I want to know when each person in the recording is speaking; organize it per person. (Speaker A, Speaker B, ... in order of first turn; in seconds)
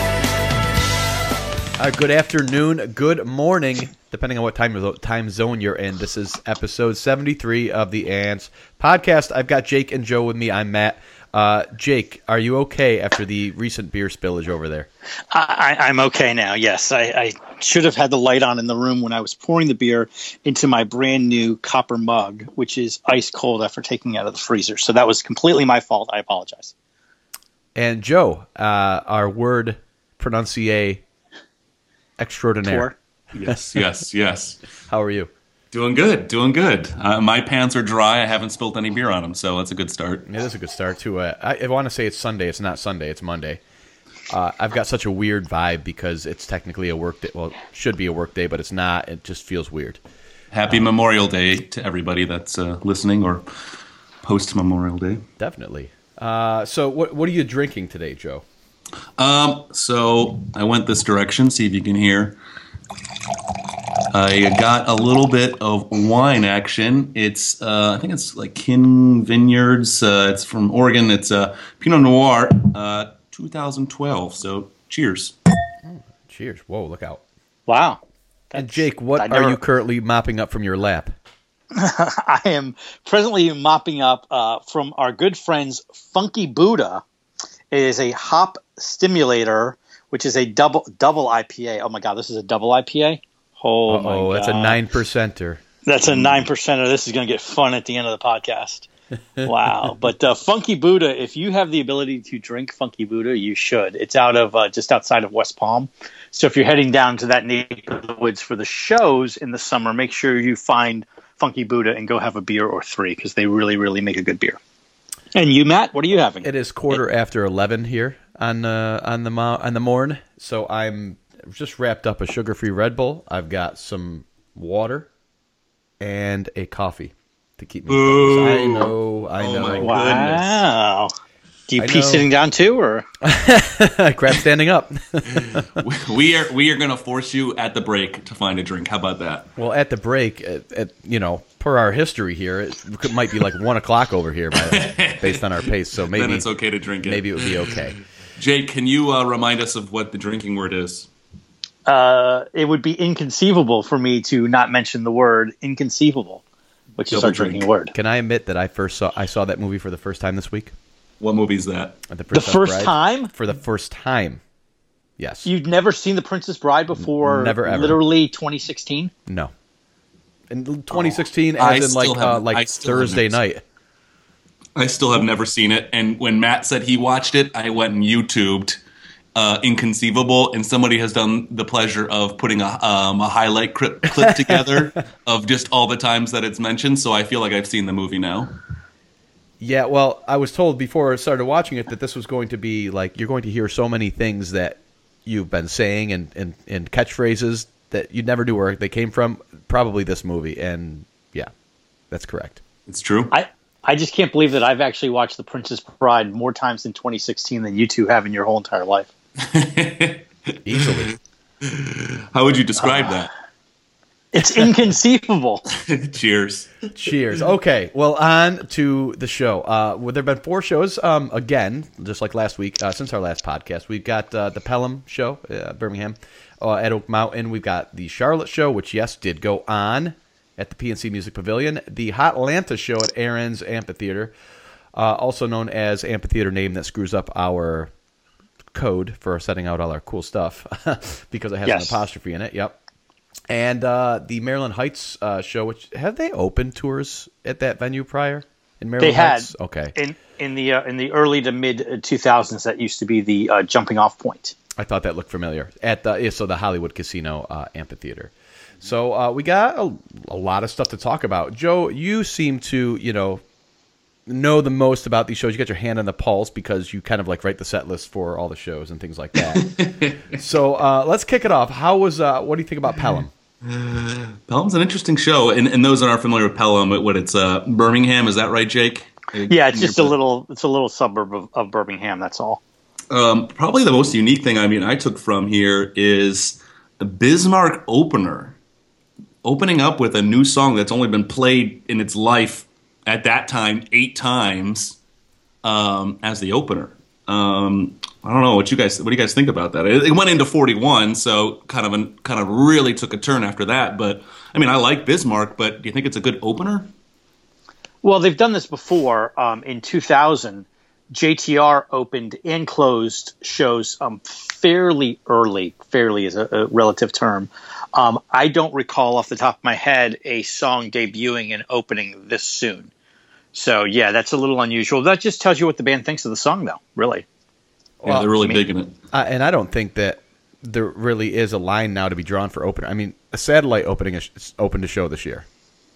Speaker A: 1.8-14.9, 27.8-31.0, 32.2-32.9, 33.5-33.9, 34.9-35.3, 40.3-43.6, 44.3-50.0, 55.4-58.5, 75.8-77.2, 78.5-81.2, 93.9-95.6, 116.4-125.1, 126.0-130.4, 131.8-132.2, 133.2-135.7, 139.6-146.5, 147.0-148.0, 157.9-160.7, 162.1-164.4, 165.2-165.5, 167.2-168.0, 169.3-169.5, 170.5-173.6, 189.6-201.5, 202.1-202.6, 210.7-211.1, 216.9-234.3, 234.9-237.9, 238.7-242.8, 243.5-249.9, 254.8-258.3, 258.8-263.4, 264.3-269.8, 270.3-273.3, 328.0-328.3, 329.1-335.4
Speaker B: 15.3-26.7, 32.7-32.9, 77.7-78.0, 78.5-79.6, 81.7-87.0, 87.7-94.8, 95.8-98.9, 99.4-114.6, 115.3-117.0, 129.8-131.1, 131.7-133.1, 151.9-156.4, 157.0-157.9, 162.3-163.3, 165.4-169.1, 203.3-209.1, 214.3-215.7, 241.7-242.0, 249.0-254.6, 279.5-282.6, 308.0-322.9, 323.5-327.2, 328.4-328.6
Speaker C: 33.3-34.6, 35.7-40.2, 50.5-53.5, 54.2-55.3, 59.2-62.4, 64.1-75.3, 127.9-130.5, 135.3-139.5, 144.6-147.8, 148.4-151.1, 157.1-157.7, 161.2-162.0, 170.9-173.4, 174.8-178.8, 179.3-188.5, 202.9-203.3, 209.4-211.1, 211.6-213.3, 215.8-216.7, 269.6-270.4, 273.6-280.1, 283.1-288.6, 289.4-295.0, 295.6-306.9, 328.0-328.9